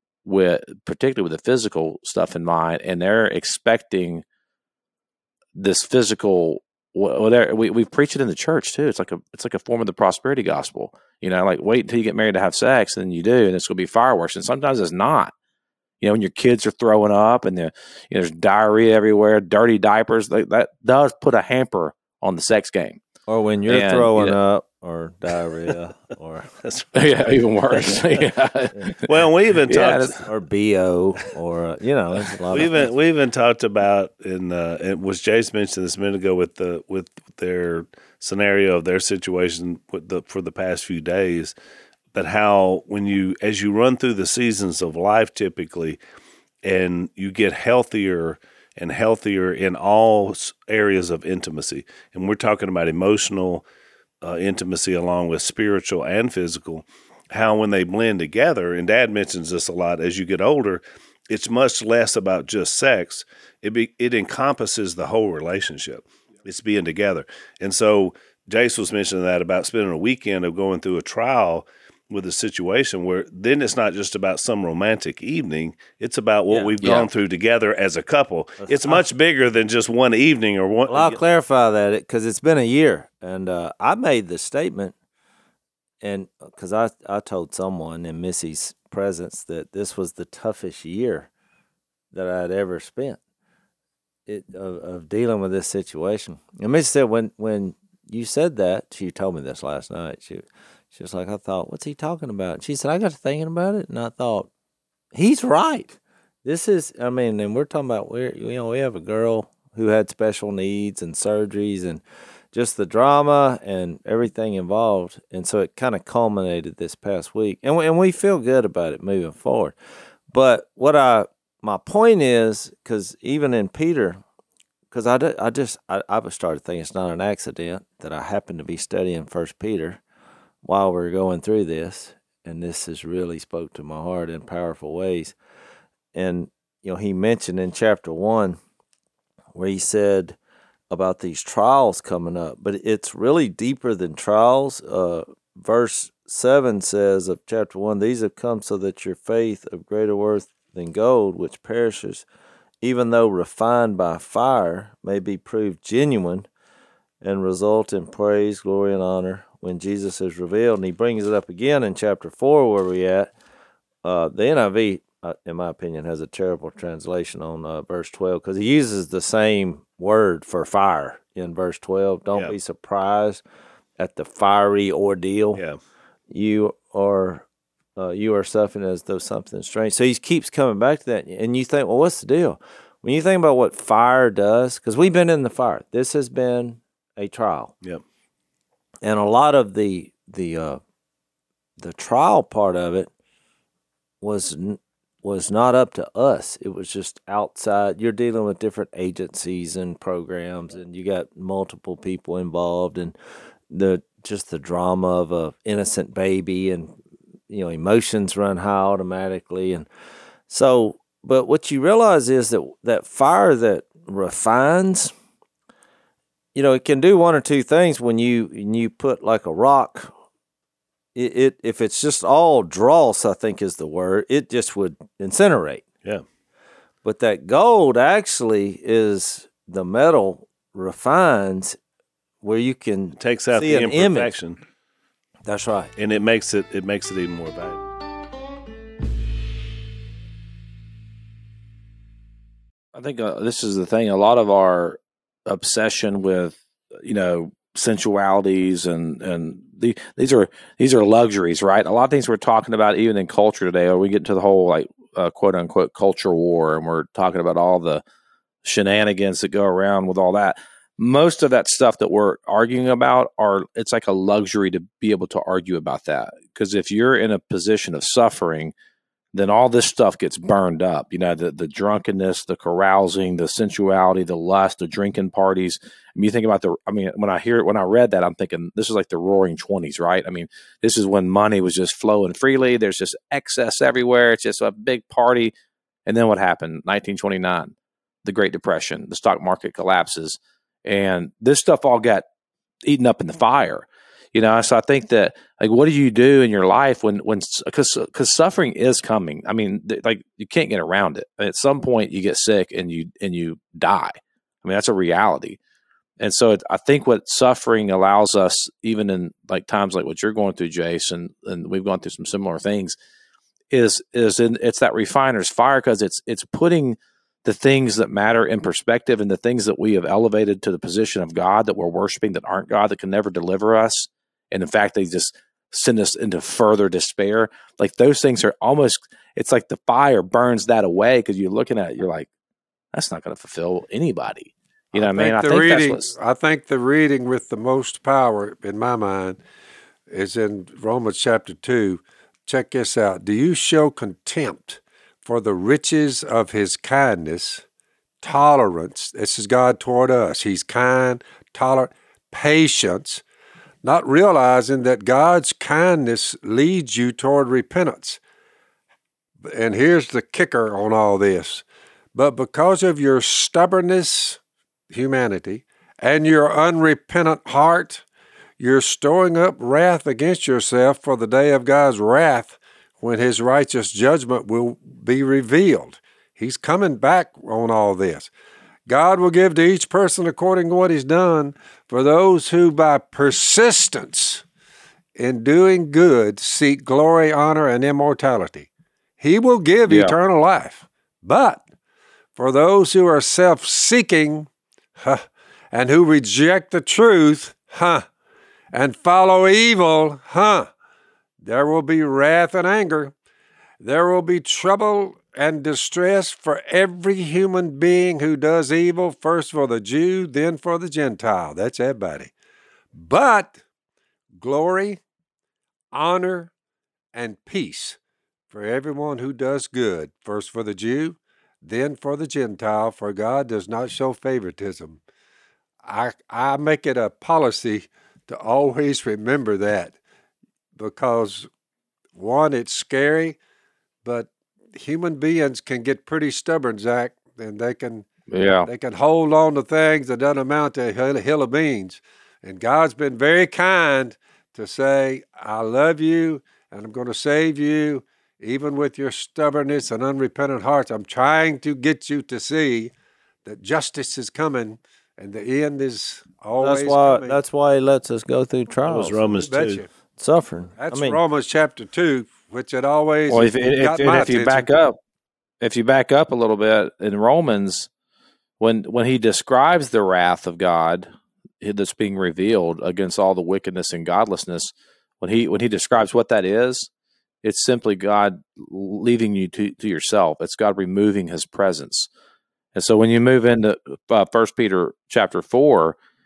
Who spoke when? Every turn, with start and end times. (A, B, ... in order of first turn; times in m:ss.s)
0:00.2-0:04.2 A
0:05.6-0:15.3 A
0:16.0-0:23.0 A
0:23.3-0:26.5 B
0:23.7-0:24.4 A
0:26.6-0:26.9 C
0:26.9-0:30.2 A
0:29.0-0:30.2 C
0:30.2-0:32.9 B
0:32.5-0:41.6 C
0:42.1-0:46.0 C
0:46.6-0:53.6 C
0:54.2-1:21.2 C
1:16.8-1:17.1 A
1:18.6-1:19.0 B
1:20.9-1:25.0 B
1:26.0-1:31.3 B
1:32.1-1:33.2 B
1:34.3-1:44.5 B
1:45.1-1:59.8 B
2:00.3-2:04.2 B
2:04.9-2:10.0 B
2:10.6-2:15.4 B
2:16.1-2:18.6 B
2:19.5-2:20.4 B
2:20.9-2:32.3 B
2:32.8-2:36.5 B
2:37.2-2:43.3 B
2:44.0-2:53.4 B
2:54.0-2:55.6 B
2:56.3-2:57.5 B
2:58.0-3:07.7 B
3:09.0-3:10.8 B
3:11.8-3:13.1 B
3:14.2-3:23.2 B
3:23.7-3:27.0 B
3:27.5-3:29.9 B
3:30.5-3:35.1 B
3:36.6-3:40.1 B
3:41.2-3:45.8 B
3:47.0-3:51.8 B
3:52.4-3:54.3 B
3:53.2-3:54.6 C
3:55.5-3:55.9 B
3:56.0-3:57.8 C
4:02.9-4:18.0 A
4:18.6-4:28.7 A
4:29.3-4:45.5 A
4:46.1-4:47.7 A
4:48.2-4:52.3 A
4:52.8-5:05.6 A
5:06.2-5:13.0 A
5:13.7-5:32.3 A
5:32.9-5:36.1 A
5:34.9-5:39.4 D
5:40.1-5:47.6 D
5:48.2-5:53.2 D
5:53.8-5:58.2 D
5:59.4-6:04.4 D
6:04.9-6:08.0 D
6:08.6-6:18.3 D
6:18.9-6:24.4 D
6:25.2-6:28.7 D
6:29.2-6:31.6 D
6:29.9-6:30.2 A
6:32.4-6:34.5 D
6:35.0-6:38.1 D
6:38.7-6:40.7 D
6:41.4-6:43.1 D
6:43.8-6:52.3 D
6:52.9-6:53.6 D
6:54.4-6:55.0 D
6:55.9-6:56.5 D
6:57.1-6:58.0 D
6:58.5-7:05.0 D
7:05.8-7:10.0 D
7:10.8-7:11.5 D
7:12.2-7:13.4 D
7:14.0-7:18.0 D
7:18.3-7:18.7 A
7:18.6-7:32.9 D
7:33.4-7:37.4 D
7:36.6-7:39.2 B
7:38.9-7:39.8 C
7:39.4-7:39.9 D
7:40.2-7:41.2 B
7:40.8-7:44.7 D
7:43.3-7:45.0 A
7:45.6-7:47.9 A
7:48.6-7:51.1 A
7:51.6-7:56.9 A
7:57.4-8:02.1 A
8:02.8-8:06.0 A